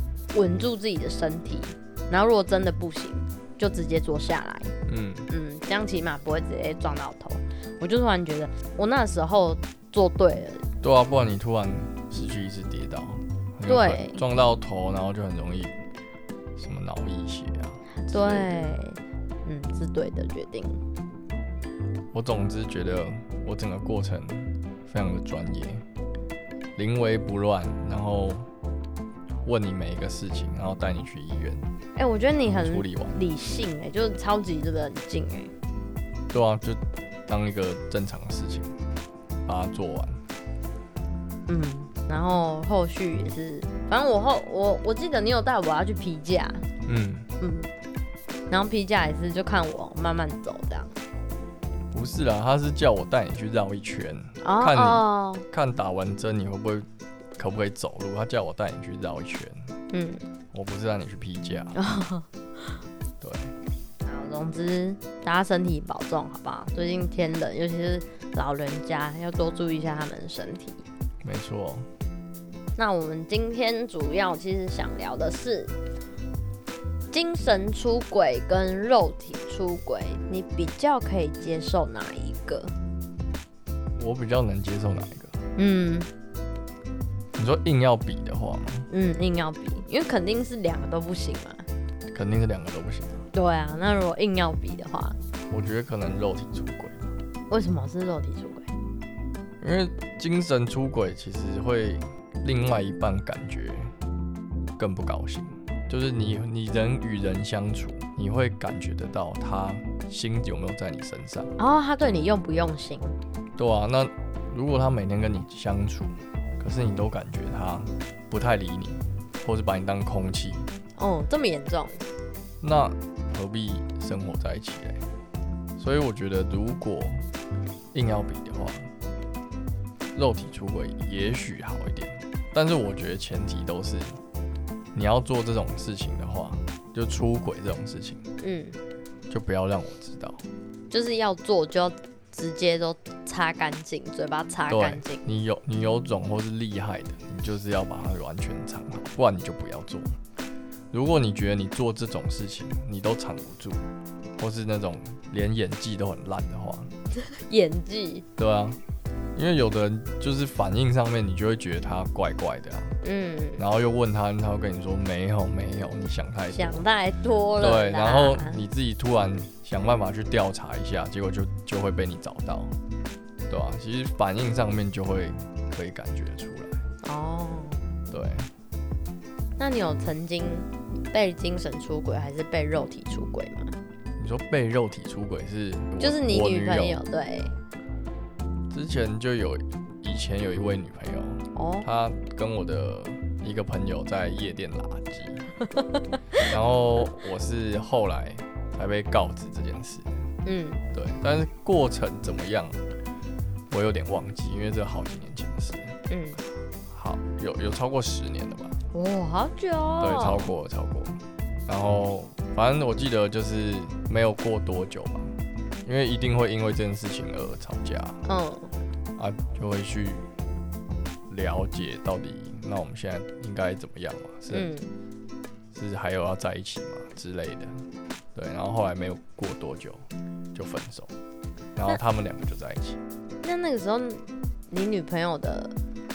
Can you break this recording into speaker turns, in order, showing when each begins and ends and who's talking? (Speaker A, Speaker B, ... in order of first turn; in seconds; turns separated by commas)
Speaker A: 0.3-4.7, Speaker B: 4.8-5.3, Speaker A: 5.3-10.7, Speaker B: 10.8-15.8, Speaker A: 13.7-14.2, Speaker B: 16.6-18.5, Speaker A: 18.1-20.8, Speaker B: 22.1-25.8, Speaker B: 26.8-28.5, Speaker B: 29.4-31.7, Speaker A: 31.9-35.5, Speaker B: 32.4-33.2, Speaker B: 36.3-38.7, Speaker B: 39.5-40.2, Speaker A: 41.5-46.6, Speaker B: 46.8-47.3, Speaker A: 47.4-47.7, Speaker A: 48.5-50.9, Speaker B: 51.9-59.7, Speaker A: 54.4-55.4, Speaker A: 59.9-60.3, Speaker B: 60.5-61.8, Speaker A: 61.7-62.8, Speaker B: 63.2-63.5, Speaker A: 64.0-70.8, Speaker B: 71.2-71.9, Speaker A: 72.8-75.7, Speaker A: 77.1-82.8, Speaker B: 83.9-85.4, Speaker A: 85.5-86.1, Speaker B: 87.3-88.9, Speaker A: 88.9-91.6, Speaker B: 92.1-93.2, Speaker A: 93.3-95.2, Speaker B: 95.5-97.1, Speaker A: 97.5-98.7, Speaker B: 99.6-103.9, Speaker B: 104.8-111.5, Speaker A: 111.6-113.2, Speaker B: 113.5-120.7, Speaker A: 121.0-122.0, Speaker B: 122.6-125.0, Speaker B: 125.8-127.2, Speaker B: 127.9-128.9, Speaker B: 130.1-134.2, Speaker B: 134.9-138.2, Speaker A: 138.4-138.8, Speaker B: 139.3-140.4, Speaker A: 140.9-145.2, Speaker B: 144.7-150.2, Speaker B: 150.9-156.9, Speaker A: 157.3-158.2, Speaker B: 158.4-158.8, Speaker B: 159.3-163.0, Speaker A: 163.0-163.6, Speaker B: 163.6-166.8, Speaker A: 166.5-168.6, Speaker B: 167.6-172.8, Speaker B: 173.5-176.8, Speaker A: 177.0-177.9, Speaker B: 178.1-178.5, Speaker A: 179.6-183.7, Speaker B: 184.2-187.0, Speaker A: 186.0-187.6, Speaker B: 188.7-195.5, Speaker A: 191.5-191.8, Speaker B: 196.4-200.2, Speaker A: 200.4-200.8, Speaker B: 200.9-202.8, Speaker B: 203.7-206.0, Speaker A: 206.1-206.4, Speaker B: 206.9-208.8, Speaker A: 208.9-210.5, Speaker B: 210.0-218.2, Speaker A: 218.2-218.7, Speaker B: 219.2-220.3, Speaker B: 221.3-224.7, Speaker A: 224.5-224.9, Speaker B: 225.7-231.1, Speaker B: 231.8-233.0, Speaker A: 233.4-235.7